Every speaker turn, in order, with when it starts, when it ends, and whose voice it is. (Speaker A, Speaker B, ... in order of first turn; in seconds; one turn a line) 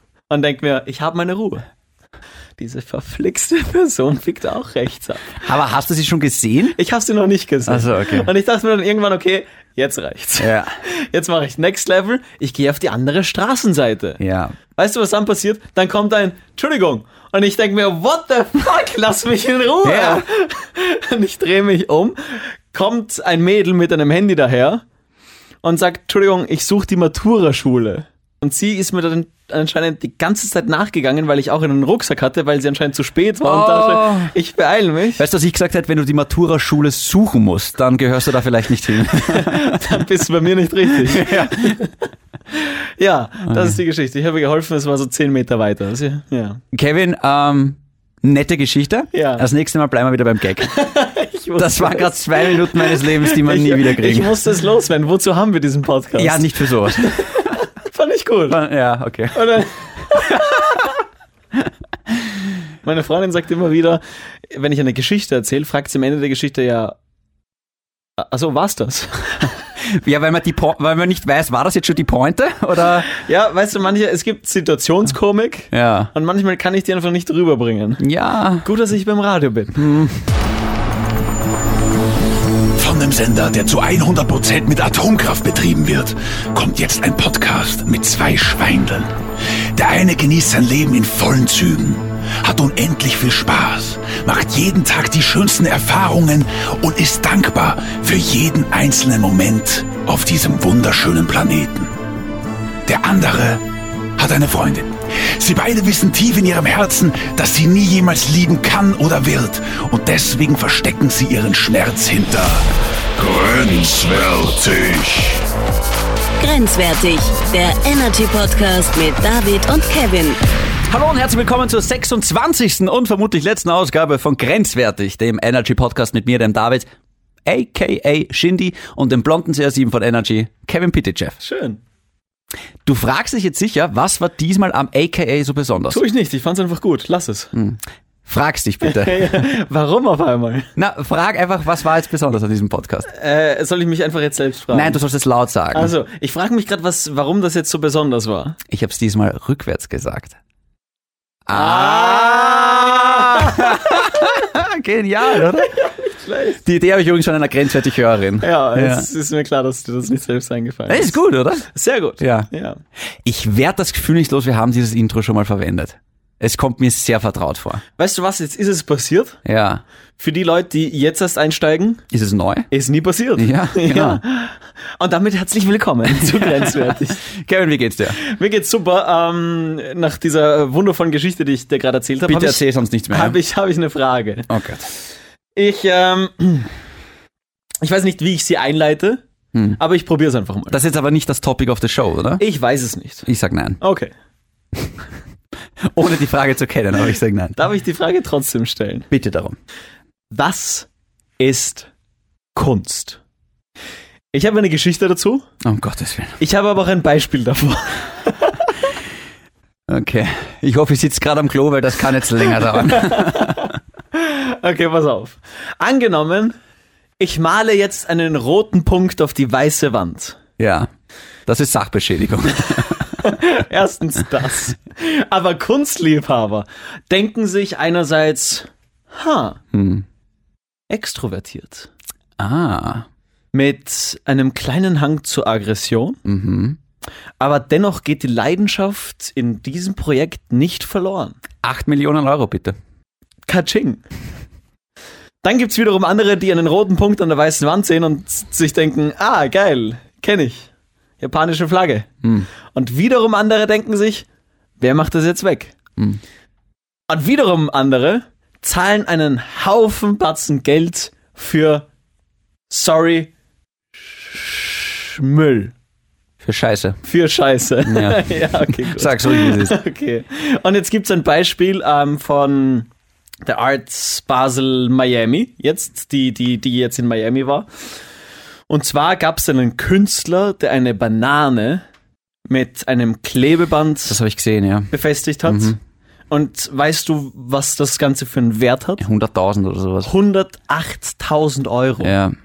Speaker A: 0.3-1.6
Speaker A: 2.6-5.4
Speaker B: 5.4-6.8
Speaker A: 6.8-14.2
Speaker B: 7.6-8.3
Speaker B: 10.4-10.7
Speaker B: 14.2-14.6
Speaker A: 14.7-24.8
Speaker B: 19.8-20.2
Speaker A: 25.6-35.2
Speaker B: 33.4-34.3
Speaker B: 35.2-39.8
Speaker A: 39.2-42.0
Speaker B: 40.9-41.8
Speaker A: 42.5-46.6
Speaker B: 43.5-43.8
Speaker B: 46.7-50.8
Speaker A: 49.1-49.4
Speaker A: 50.6-58.6
Speaker B: 51.6-54.4
Speaker B: 56.1-57.5
Speaker B: 58.5-59.5
Speaker A: 59.3-61.0
Speaker B: 60.1-60.6
Speaker A: 62.8-66.9
Speaker A: 68.2-69.5
Speaker B: 69.8-73.1
Speaker A: 73.1-78.0
Speaker B: 75.7-76.1
Speaker B: 78.0-78.7
Speaker A: 78.6-79.8
Speaker B: 79.7-80.2
Speaker B: 82.8-89.0
Speaker C: 83.1-83.5
Speaker C: 84.2-88.9
Speaker C: 89.8-91.7
Speaker B: 89.8-101.8
Speaker C: 92.5-101.7
Speaker B: 102.9-103.5
Speaker C: 103.1-103.3
Speaker C: 104.2-104.7
Speaker B: 104.2-104.9
Speaker C: 105.4-112.4
Speaker B: 105.4-107.5
Speaker B: 108.4-112.5
Speaker B: 113.2-115.0
Speaker C: 113.2-115.0
Speaker D: 116.4-120.4
Speaker B: 120.9-126.9
Speaker B: 127.5-131.4
Speaker A: 131.4-131.8
Speaker B: 132.8-136.0
Speaker A: 135.9-137.5
Speaker B: 137.5-139.4
Speaker A: 138.8-140.7
Speaker B: 140.8-143.1
Speaker A: 143.1-145.0
Speaker B: 144.7-145.9
Speaker A: 145.7-148.6
Speaker B: 148.7-150.3
Speaker B: 151.4-155.7
Speaker A: 151.5-154.0
Speaker A: 155.4-156.6
Speaker B: 156.6-159.1
Speaker A: 158.4-162.8
Speaker B: 160.9-161.7
Speaker B: 162.2-162.5
Speaker B: 163.2-167.8
Speaker A: 168.0-169.4
Speaker B: 169.4-169.8
Speaker A: 170.2-172.0
Speaker B: 172.1-172.7
Speaker A: 172.7-177.2
Speaker B: 173.4-174.2
Speaker B: 176.1-178.2
Speaker A: 178.1-184.5
Speaker B: 182.3-183.4
Speaker B: 184.5-184.8
Speaker A: 185.6-186.7
Speaker A: 187.8-189.2
Speaker A: 189.7-190.8
Speaker B: 190.7-192.4
Speaker A: 192.4-193.3
Speaker B: 193.2-193.8
Speaker A: 193.8-194.1
Speaker B: 195.8-197.6
Speaker A: 197.6-199.1
Speaker B: 199.1-199.6
Speaker A: 200.3-200.9
Speaker A: 201.4-201.9
Speaker A: 202.5-203.2
Speaker A: 204.3-205.5
Speaker B: 205.6-206.4
Speaker A: 206.4-208.7
Speaker B: 209.9-213.7
Speaker A: 212.7-216.5
Speaker A: 217.2-220.4
Speaker B: 220.6-220.9
Speaker B: 221.5-223.2
Speaker A: 223.2-229.6
Speaker B: 229.7-230.1
Speaker A: 230.9-231.9
Speaker B: 232.4-233.1
Speaker A: 233.5-236.2
Speaker B: 236.2-236.8
Speaker A: 237.4-241.3
Speaker B: 241.6-242.8
Speaker A: 243.5-244.0
Speaker A: 245.4-252.1
Speaker B: 252.2-252.5
Speaker A: 252.7-254.2
Speaker A: 254.8-255.7
Speaker A: 257.1-261.9
Speaker A: 262.7-263.3
Speaker A: 264.0-265.7
Speaker B: 266.4-267.0
Speaker A: 267.0-272.9
Speaker B: 267.8-269.8
Speaker A: 273.4-277.7
Speaker A: 278.7-281.8
Speaker A: 282.5-284.2
Speaker B: 284.1-284.9
Speaker A: 284.9-285.8
Speaker B: 285.4-285.8
Speaker A: 286.3-289.0
Speaker B: 289.0-290.1
Speaker A: 290.0-292.1
Speaker B: 292.0-292.3